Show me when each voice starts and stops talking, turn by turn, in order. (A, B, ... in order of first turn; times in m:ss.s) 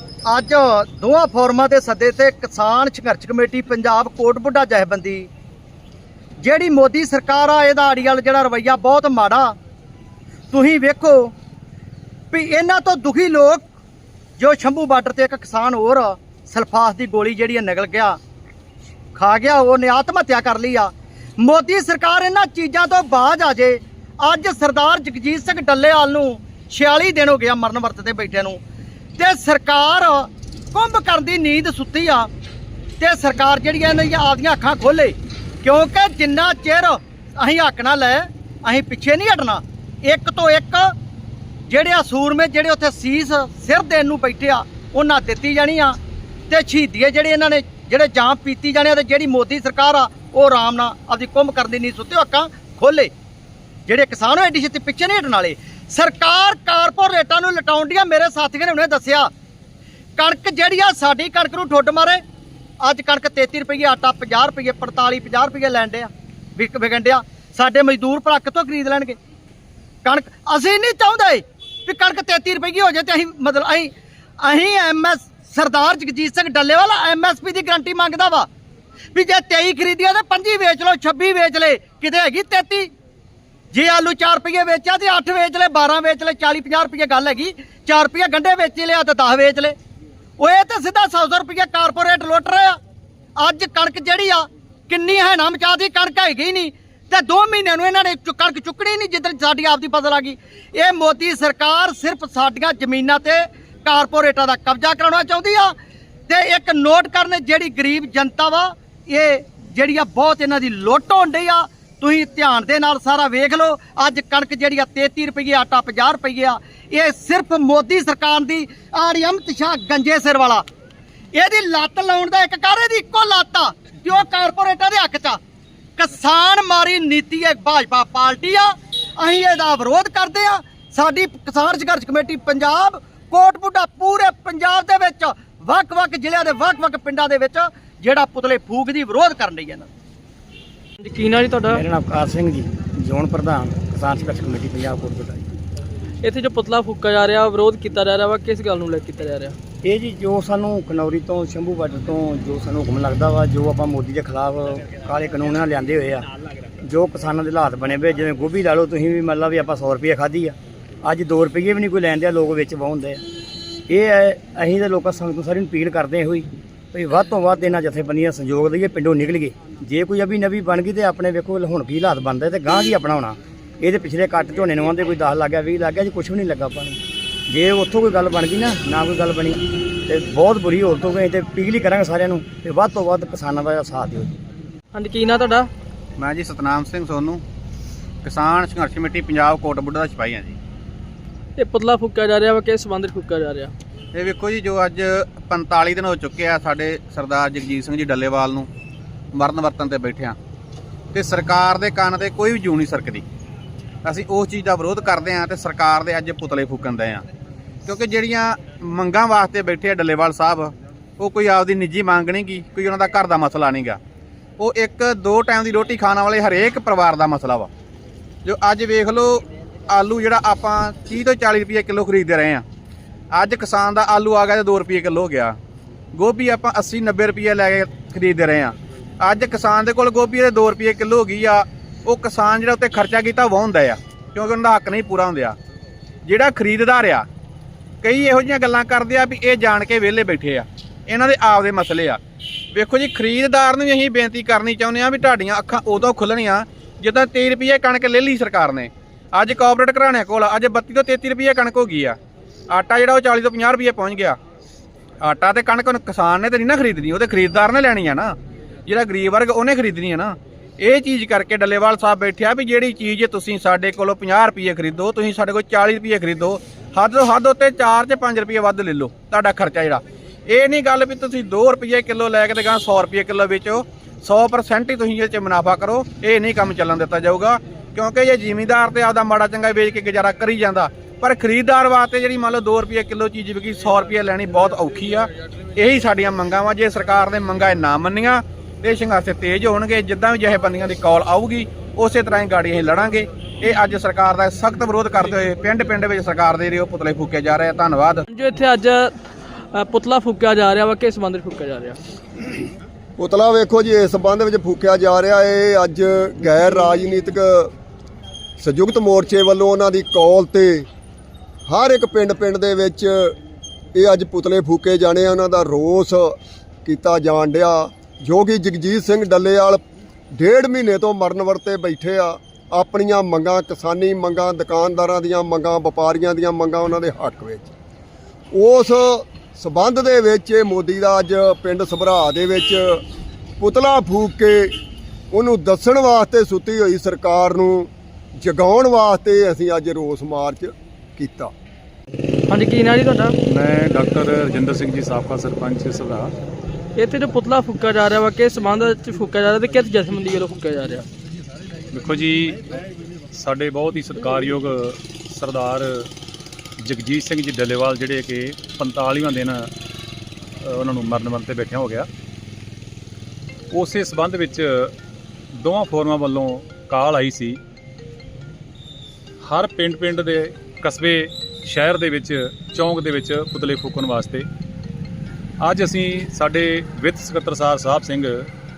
0:00.2-0:05.3 A
0:06.4-0:09.6 A
0:10.5-0:11.3 A
0:12.3-0:13.6 A
0:14.4-0:18.2 A
0:19.1-0:28.6 A
0:29.2-0:32.3 A
0:33.0-0:40.9 A
0:41.7-0:46.0 A
0:46.5-0:53.1 A
0:53.9-0:59.3 A
1:00.2-1:02.2 A
1:02.8-1:09.2 A
1:10.0-1:18.5 A
1:19.1-1:22.9 A
1:23.7-1:29.7 A
1:30.4-1:32.8 A
1:33.4-1:45.7 A
1:46.3-2:00.6 A
2:01.3-2:05.4 A
2:06.0-2:19.9 A
2:21.0-2:21.8 B
2:21.7-2:25.5 C
2:26.2-2:29.5 B
2:29.8-2:36.3 C
2:36.8-2:43.2 C
2:43.9-3:04.3 C
3:04.9-3:05.7 B
3:06.2-3:07.4 D
3:08.2-3:10.6 D
3:11.6-3:13.7 B
3:14.1-3:18.7 D
3:19.3-3:20.4 D
3:21.1-3:23.2 D
3:24.0-3:27.2 D
3:27.8-3:34.0 D
3:34.6-3:37.7 D
3:38.4-3:42.6 D
3:43.3-3:45.6 D
3:46.1-3:55.6 D
3:56.2-3:57.2 D
3:58.0-4:02.2 D
4:02.7-4:12.2 D
4:12.7-4:14.4 D
4:15.2-4:18.3 D
4:18.9-4:58.2 D
4:58.3-4:59.2 B
4:59.7-5:02.0 B
5:03.2-5:07.7 E
5:08.6-5:10.9 E
5:11.7-5:13.3 E
5:13.9-5:27.7 E
5:28.5-5:33.0 E
5:33.6-5:34.8 E
5:35.3-5:41.5 E
5:42.5-5:43.4 B
5:43.5-5:46.3 F
5:47.0-5:51.1 B
5:51.9-5:56.1 F
5:56.8-5:59.7 F
6:00.6-6:02.1 F
6:03.7-6:04.9 F
6:05.6-6:07.6 F
6:09.4-6:14.5 F
6:15.6-6:18.5 F